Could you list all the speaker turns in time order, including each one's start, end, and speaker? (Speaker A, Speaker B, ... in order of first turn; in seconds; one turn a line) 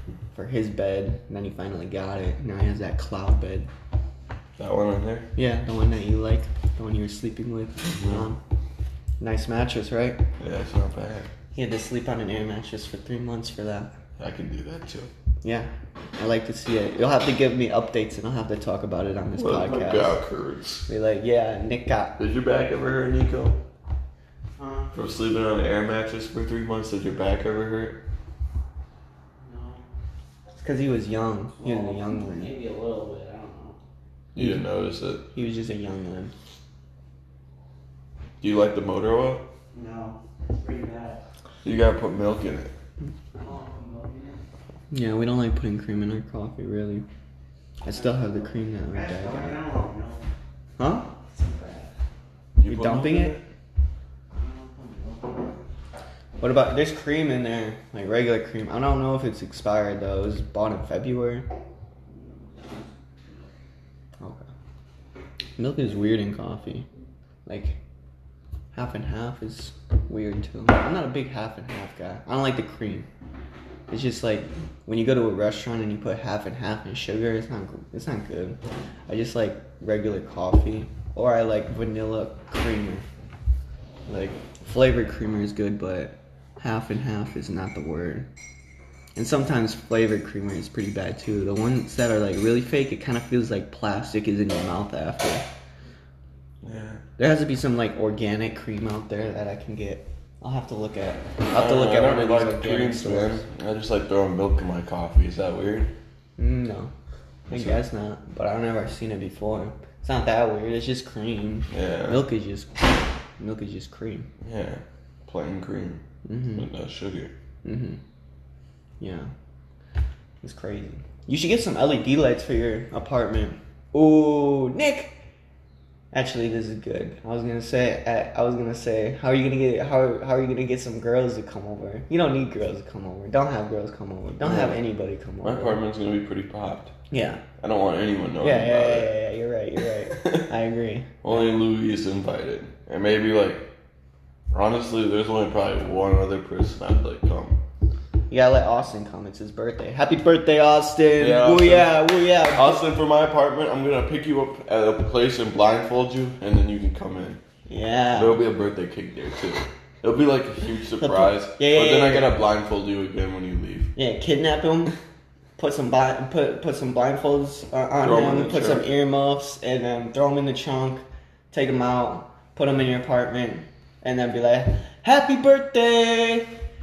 Speaker A: 0.3-3.7
Speaker B: 4.6-5.3
Speaker A: 5.4-8.4
Speaker B: 7.9-8.2
Speaker A: 9.2-10.2
Speaker B: 10.4-11.3
Speaker A: 11.6-13.9
Speaker B: 14.2-15.1
Speaker A: 15.4-20.2
Speaker B: 19.4-20.9
Speaker A: 20.9-22.2
Speaker B: 22.2-23.6
Speaker C: 24.6-24.9
Speaker B: 24.9-28.0
Speaker C: 29.4-29.9
Speaker A: 30.6-32.5
Speaker C: 31.6-33.8
Speaker B: 34.4-35.2
Speaker A: 34.4-34.6
Speaker A: 35.3-36.3
Speaker B: 38.4-39.5
Speaker C: 39.7-41.2
Speaker B: 41.6-42.7
Speaker C: 43.4-44.4
Speaker A: 44.9-47.0
Speaker A: 47.8-49.6
Speaker C: 47.9-50.2
Speaker A: 50.8-51.1
Speaker C: 51.0-51.9
Speaker B: 52.6-53.5
Speaker A: 52.7-53.4
Speaker C: 54.3-55.6
Speaker A: 56.4-61.5
Speaker C: 62.2-63.4
Speaker A: 64.2-64.5
Speaker A: 65.6-66.9
Speaker A: 67.5-67.8
Speaker A: 68.7-73.1
Speaker A: 73.9-83.1
Speaker A: 84.1-88.3
Speaker A: 89.2-95.5
Speaker B: 96.6-97.0
Speaker A: 97.2-103.4
Speaker B: 101.5-105.9
Speaker A: 106.4-106.9
Speaker B: 107.5-107.8
Speaker A: 107.5-112.9
Speaker B: 111.7-112.2
Speaker A: 113.4-114.3
Speaker B: 114.4-116.0
Speaker A: 116.2-116.7
Speaker B: 116.5-117.3
Speaker A: 117.6-118.0
Speaker A: 119.0-119.3
Speaker A: 120.4-125.2
Speaker A: 126.1-135.8
Speaker B: 134.4-134.8
Speaker B: 135.4-136.9
Speaker A: 137.1-137.4
Speaker B: 137.6-139.2
Speaker A: 138.4-141.2
Speaker B: 140.2-140.4
Speaker B: 141.2-143.7
Speaker B: 144.5-147.6
Speaker A: 148.3-152.8
Speaker B: 151.2-157.4
Speaker A: 157.7-158.4
Speaker B: 158.1-163.9
Speaker A: 161.0-162.3
Speaker A: 164.0-164.9
Speaker A: 165.6-176.6
Speaker B: 168.0-168.9